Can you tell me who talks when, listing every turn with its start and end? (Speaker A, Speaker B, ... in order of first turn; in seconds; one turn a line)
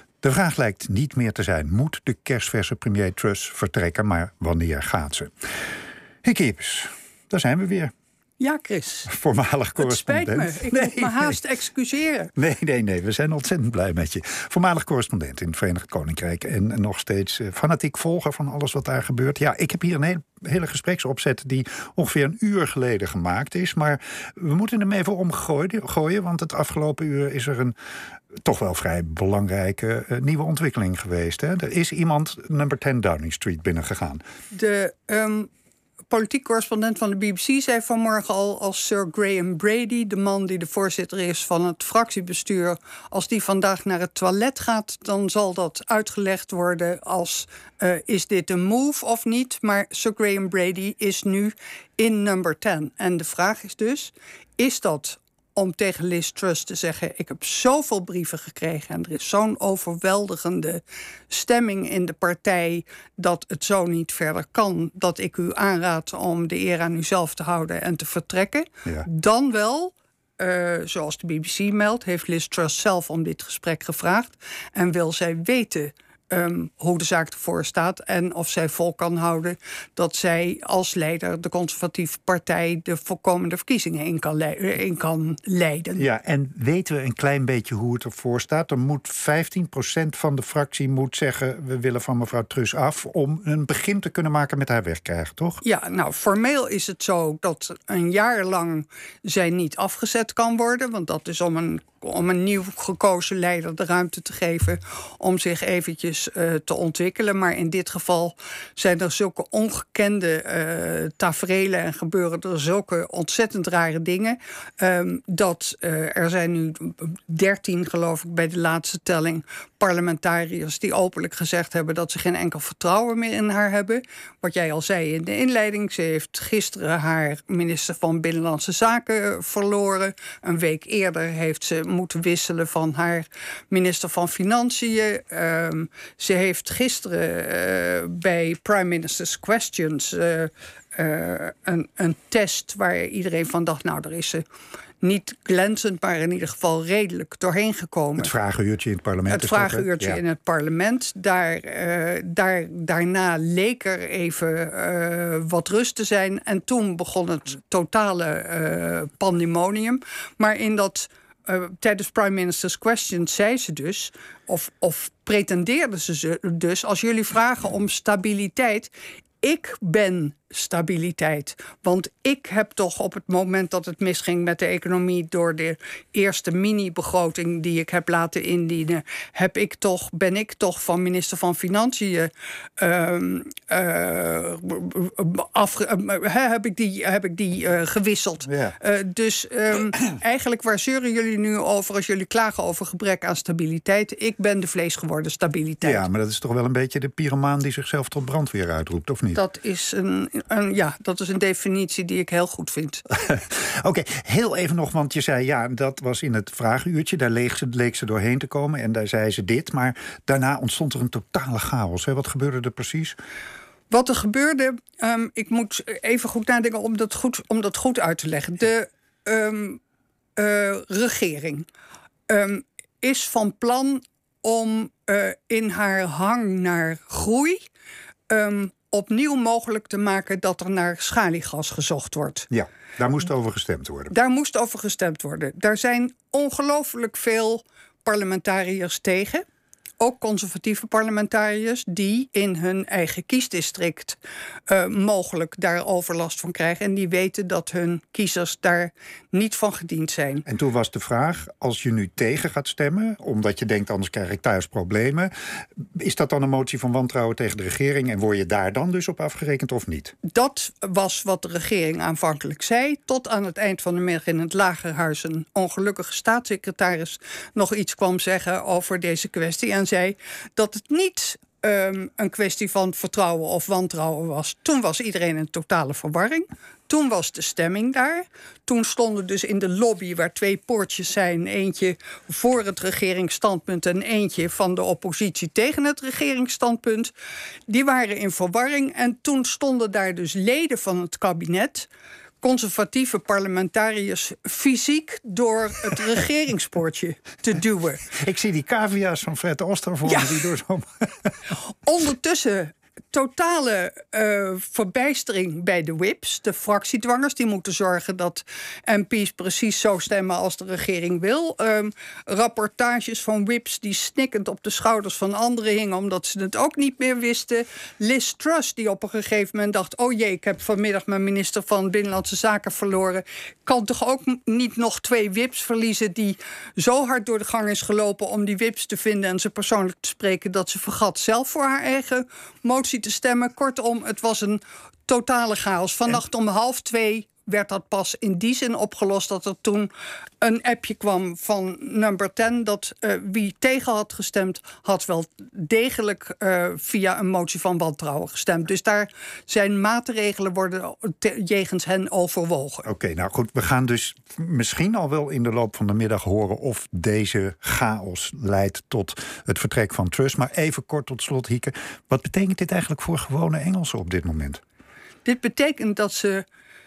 Speaker A: 0.2-5.3
Speaker A: 6.2-7.9
Speaker B: 8.4-9.1
Speaker A: 9.1-11.4
Speaker B: 9.8-12.3
Speaker A: 12.4-27.8
Speaker A: 28.4-34.2
Speaker B: 34.5-35.5
Speaker B: 36.1-86.0
Speaker A: 86.0-95.6
Speaker B: 95.6-144.4
Speaker B: 145.0-148.3
Speaker A: 148.2-150.2
Speaker B: 149.3-196.1
Speaker A: 188.5-188.8
Speaker A: 195.8-199.4
Speaker B: 199.3-203.0
Speaker A: 203.1-213.2
Speaker B: 213.9-219.8
Speaker B: 220.4-221.7
Speaker B: 222.3-227.6
Speaker B: 228.3-232.5
Speaker A: 232.5-234.1
Speaker B: 234.1-239.4
Speaker B: 240.0-250.4
Speaker A: 250.5-255.3
Speaker A: 255.9-260.1
Speaker B: 260.3-287.1
Speaker B: 287.7-291.9
Speaker B: 292.4-298.1
Speaker A: 298.1-301.3
Speaker B: 300.1-300.4
Speaker B: 301.9-339.9
Speaker B: 340.4-352.9
Speaker A: 352.8-364.6
Speaker B: 365.2-366.4